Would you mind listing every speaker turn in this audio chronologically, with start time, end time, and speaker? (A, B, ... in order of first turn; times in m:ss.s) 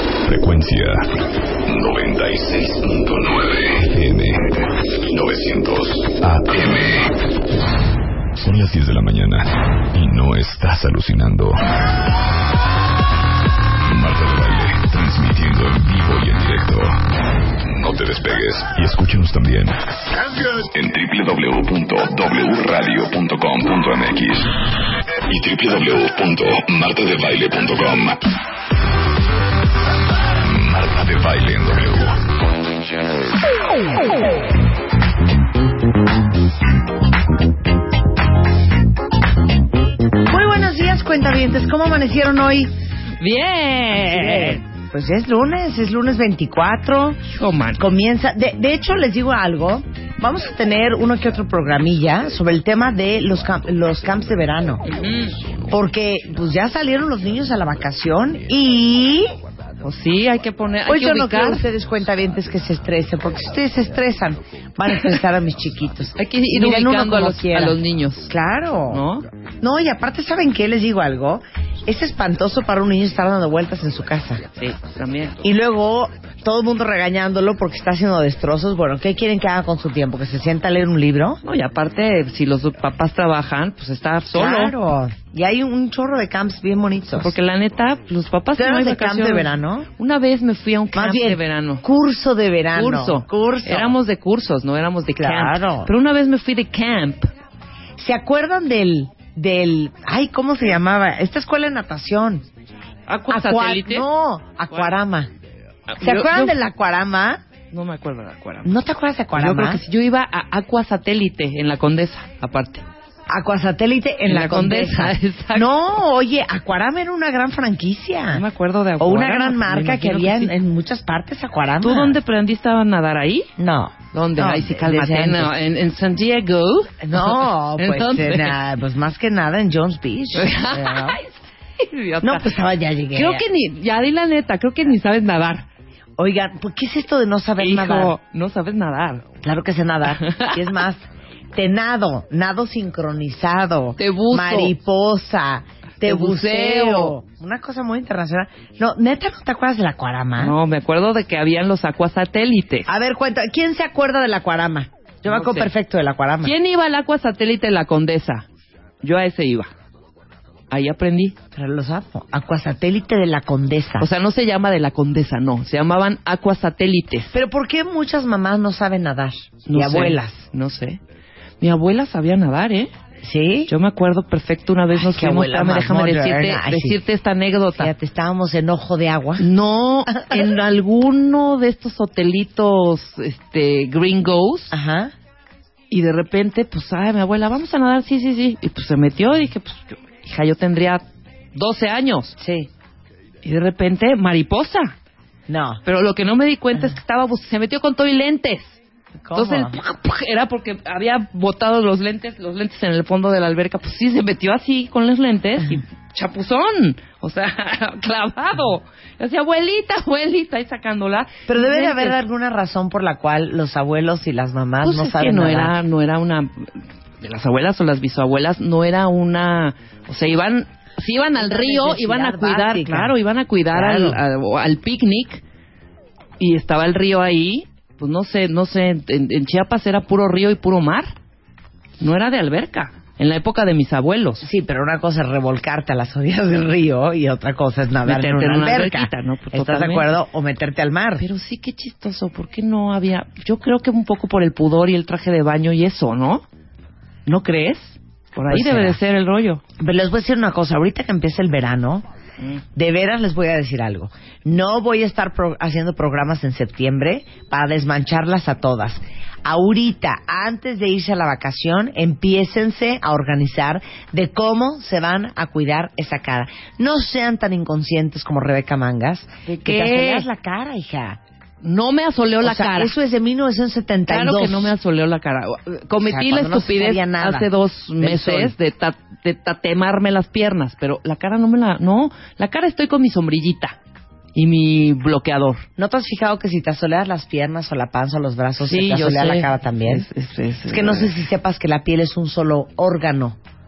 0:00.2-0:01.1 A
0:01.6-0:07.2 A
0:08.4-0:11.7 A
0:13.9-0:17.0 A
0:17.6-0:24.5 A
0:25.3-0:28.2 A
0:30.4-0:32.2 A
0:40.3-0:42.7 B
0:43.2-0:44.6 C
0:44.0-0:47.2 B
0:47.3-0:47.8 C
0:47.8-0:54.8 B
0:54.8-0:55.4 C
0:55.7-0:59.3 B
0:59.8-1:01.7 C
1:00.8-1:09.0 B
1:06.2-1:08.3 C
1:08.9-1:09.2 C
1:09.6-1:14.4 B
1:14.6-1:15.4 C
1:15.4-1:21.4 B
1:21.4-1:24.7 C
1:24.3-1:27.4 B
1:27.2-1:31.8 C
1:28.6-1:29.9 B
1:30.9-1:34.0 B
1:32.7-1:37.3 C
1:35.2-1:35.9 B
1:38.0-1:42.4 B
1:43.1-1:44.1 C
1:43.3-1:45.3 B
1:45.9-1:46.6 C
1:46.0-1:47.4 B
1:47.7-1:48.7 C
1:48.6-1:49.8 B
1:49.3-1:52.8 C
1:53.3-1:58.4 B
1:54.2-1:55.7 C
1:58.3-2:00.5 C
1:59.0-2:02.2 B
2:01.8-2:03.5 C
2:03.6-2:05.5 B
2:04.1-2:08.6 C
2:07.0-2:11.2 B
2:10.3-2:12.5 C
2:12.2-2:13.4 B
2:13.1-2:15.6 C
2:16.2-2:18.2 B
2:17.6-2:19.2 C
2:19.4-2:30.5 B
2:20.1-2:20.6 C
2:24.0-2:24.7 C
2:26.0-2:27.1 C
2:30.4-2:32.9 C
2:32.9-2:36.6 B
2:35.3-2:35.7 C
2:36.4-2:38.4 C
2:39.0-2:39.7 C
2:40.7-2:41.4 C
2:41.5-2:44.1 B
2:44.0-2:47.3 C
2:47.3-2:50.4 B
2:49.6-2:51.0 C
2:51.6-2:52.9 C
2:53.2-2:53.7 B
2:53.7-2:57.9 C
2:54.9-2:57.0 B
2:57.7-2:59.5 B
2:59.4-3:04.7 C
3:00.1-3:00.4 B
3:04.7-3:05.1 B
3:05.9-3:11.0 C
3:11.5-3:12.4 C
3:12.4-3:12.7 B
3:13.4-3:14.9 C
3:15.5-3:15.8 B
3:15.8-3:18.8 C
3:19.2-3:19.8 B
3:19.3-3:32.2 C
3:31.5-3:35.8 B
3:34.8-3:45.4 C
3:41.3-3:43.2 B
3:43.7-3:44.2 B
3:46.4-3:51.1 C
3:52.0-3:54.4 C
3:54.4-4:01.2 B
3:58.0-4:00.1 C
4:01.2-4:06.4 C
4:07.2-4:09.6 C
4:08.5-4:09.0 B
4:09.8-4:12.0 B
4:12.7-4:31.2 B
4:29.5-4:30.3 C
4:31.6-4:32.9 C
4:32.4-4:34.7 B
4:34.1-4:43.8 C
4:36.0-4:37.5 B
4:38.0-4:38.5 B
4:44.3-4:45.6 C
4:45.8-4:50.1 B
4:48.6-4:51.1 C
4:50.7-4:53.4 B